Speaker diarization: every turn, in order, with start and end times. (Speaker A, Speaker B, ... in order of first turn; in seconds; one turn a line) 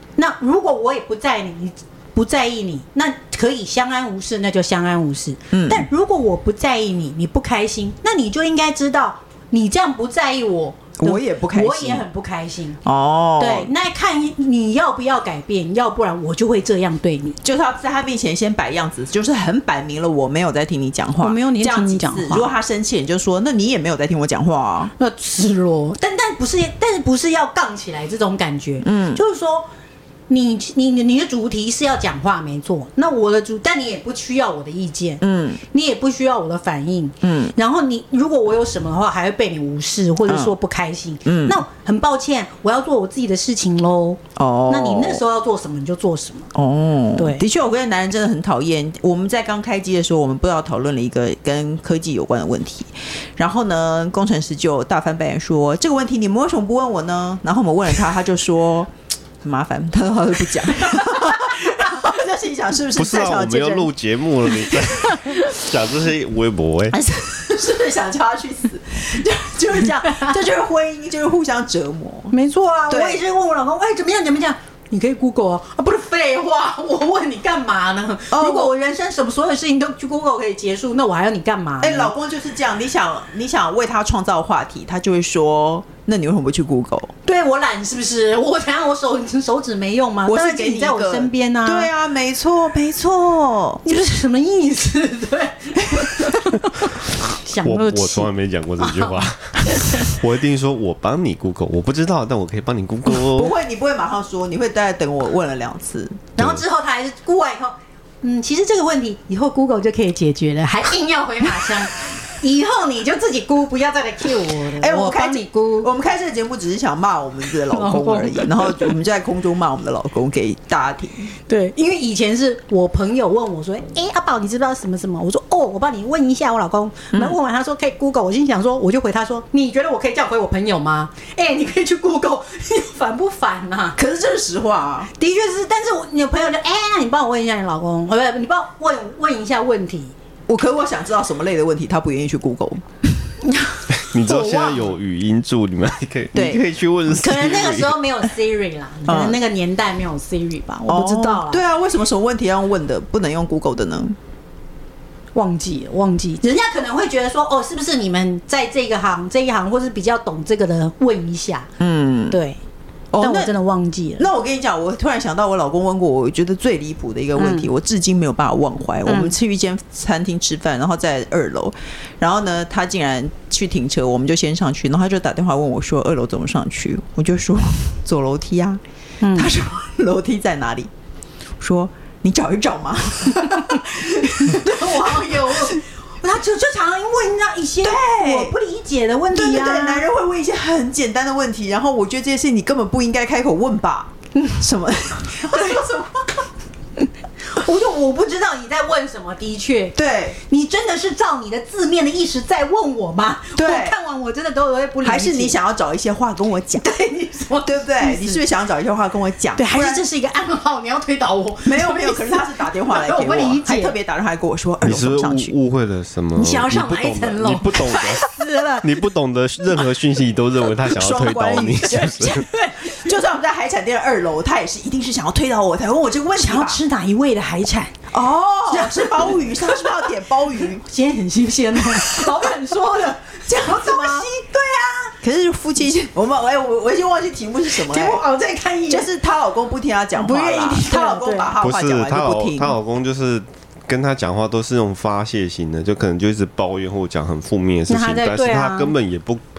Speaker A: 0.2-12.8
Speaker B: 5.5-5.9
Speaker B: 11.0-12.1
Speaker B: 12.8-13.7
Speaker A: 13.4-17.4
Speaker B: 17.4-24.9
Speaker A: 21.2-22.5
Speaker A: 25.0-29.7
Speaker B: 28.8-29.2
Speaker A: 30.3-46.5
Speaker B: 35.2-35.6
Speaker B: 37.2-37.5
Speaker B: 40.3-40.5
Speaker B: 41.3-41.6
Speaker B: 44.4-45.2
Speaker B: 46.5-58.9
Speaker A: 47.2-47.4
Speaker B: 59.4-63.9
Speaker C: 63.0-67.0
Speaker B: 64.7-65.2
Speaker B: 66.9-72.3
Speaker A: 70.0-70.4
Speaker A: 72.3-82.1
Speaker B: 72.9-73.2
Speaker B: 78.3-78.7
Speaker B: 81.8-87.1
Speaker A: 87.3-91.9
Speaker B: 90.3-93.8
Speaker A: 93.8-100.1
Speaker B: 95.9-96.3
Speaker C: 97.6-103.5
Speaker B: 103.2-106.3
Speaker A: 106.4-115.9
Speaker C: 106.4-106.6
Speaker B: 114.8-121.3
Speaker A: 117.7-118.9
Speaker A: 121.5-134.0
Speaker B: 134.0-135.1
Speaker A: 135.2-140.1
Speaker B: 140.5-142.9
Speaker A: 143.5-144.9
Speaker C: 143.9-148.2
Speaker B: 146.3-146.6
Speaker A: 147.1-151.6
Speaker B: 149.1-149.4
Speaker B: 150.9-154.2
Speaker A: 155.3-161.7
Speaker B: 161.8-162.4
Speaker A: 162.3-162.6
Speaker B: 163.1-163.5
Speaker A: 163.2-164.3
Speaker B: 164.2-178.8
Speaker A: 167.4-167.7
Speaker A: 169.1-169.3
Speaker A: 179.2-179.5
Speaker B: 179.3-180.9
Speaker B: 181.6-185.8
Speaker A: 183.3-190.1
Speaker B: 187.8-188.5
Speaker B: 189.3-196.0
Speaker A: 195.3-196.1
Speaker A: 197.5-205.6
Speaker B: 199.9-200.4
Speaker B: 203.6-203.9
Speaker B: 205.0-206.9
Speaker A: 206.8-208.4
Speaker B: 207.6-210.0
Speaker A: 209.6-213.9
Speaker B: 211.7-215.6
Speaker C: 214.8-222.5
Speaker A: 216.3-219.1
Speaker B: 220.8-226.8
Speaker A: 222.0-223.1
Speaker A: 226.4-228.0
Speaker B: 228.1-230.8
Speaker A: 228.7-235.2
Speaker B: 231.8-232.7
Speaker B: 233.5-234.3
Speaker B: 235.2-238.2
Speaker A: 237.7-239.1
Speaker B: 238.9-242.8
Speaker A: 240.2-241.5
Speaker C: 241.6-249.4
Speaker A: 247.9-248.9